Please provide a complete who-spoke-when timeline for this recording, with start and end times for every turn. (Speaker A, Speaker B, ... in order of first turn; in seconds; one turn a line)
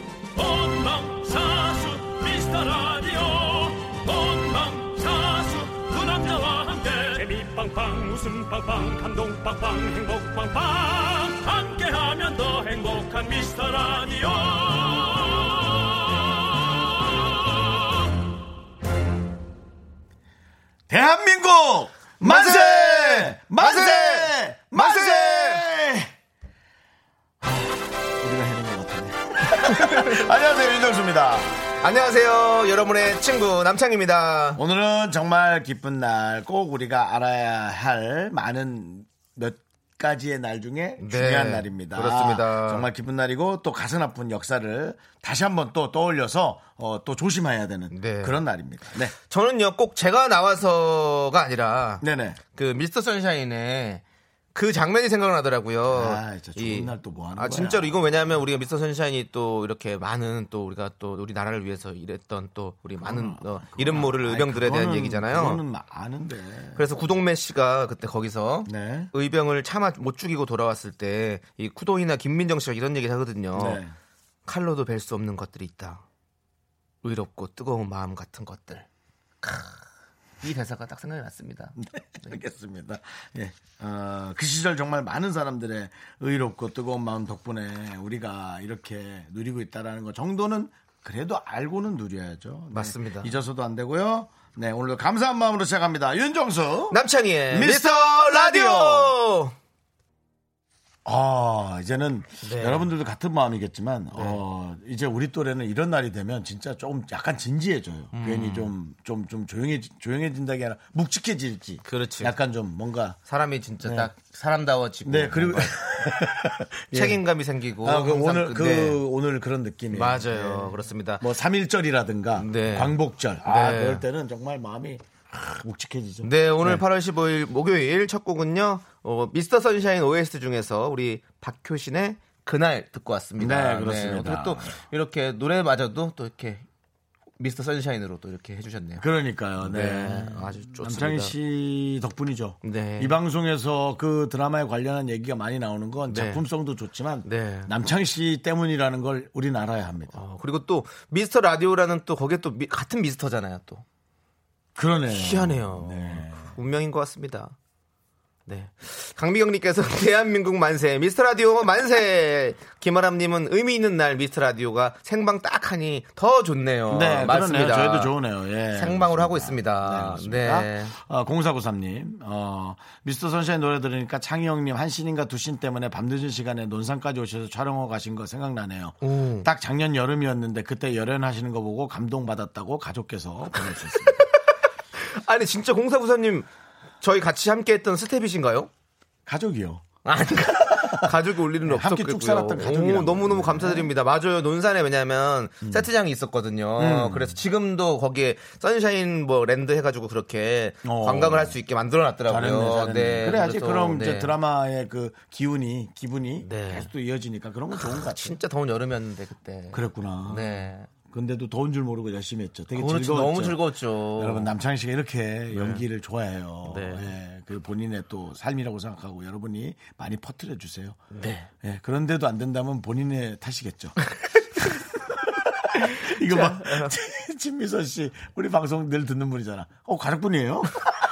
Speaker A: 0.3-17.6
Speaker B: 20.9-26.1
Speaker C: 22.2-25.6
Speaker B: 27.4-31.5
Speaker C: 29.6-30.2
Speaker C: 31.8-34.6
Speaker B: 34.6-49.1
Speaker C: 41.0-42.9
Speaker C: 47.9-48.4
Speaker C: 49.3-54.0
Speaker B: 52.0-52.4
Speaker C: 54.5-65.6
Speaker B: 55.9-58.0
Speaker B: 63.0-66.8
Speaker C: 66.8-73.8
Speaker B: 68.7-69.1
Speaker B: 73.5-73.9
Speaker C: 74.5-76.0
Speaker C: 77.0-78.9
Speaker C: 79.4-79.8
Speaker C: 80.4-81.8
Speaker B: 81.8-99.2
Speaker C: 92.7-93.3
Speaker C: 96.9-99.5
Speaker B: 101.0-113.2
Speaker C: 102.4-102.9
Speaker C: 104.1-104.4
Speaker C: 108.1-108.7
Speaker C: 111.8-112.3
Speaker C: 113.3-115.8
Speaker B: 113.8-114.1
Speaker B: 115.0-117.2
Speaker C: 116.9-119.0
Speaker B: 117.8-126.8
Speaker C: 119.9-121.2
Speaker C: 122.4-124.0
Speaker C: 126.2-136.7
Speaker B: 133.4-134.8
Speaker C: 137.4-139.1
Speaker B: 139.0-150.2
Speaker C: 139.6-141.3
Speaker C: 142.6-143.2
Speaker C: 146.1-146.4
Speaker C: 147.2-147.7
Speaker C: 150.1-153.8
Speaker B: 154.8-156.5
Speaker C: 155.1-157.6
Speaker C: 158.5-168.1
Speaker B: 166.9-184.2
Speaker C: 168.7-170.9
Speaker C: 179.0-179.5
Speaker C: 185.0-186.5
Speaker C: 187.0-188.7
Speaker B: 189.3-189.9
Speaker C: 190.1-204.3
Speaker B: 190.5-191.1
Speaker B: 191.6-193.9
Speaker B: 195.6-195.9
Speaker B: 196.8-197.4
Speaker B: 200.8-201.6
Speaker B: 202.3-208.4
Speaker C: 206.4-206.9
Speaker C: 207.7-210.9
Speaker B: 209.7-221.1
Speaker C: 212.8-214.5
Speaker C: 215.5-215.8
Speaker C: 216.7-217.1
Speaker C: 221.1-221.5
Speaker B: 221.6-224.0
Speaker B: 225.2-230.8
Speaker C: 226.0-226.9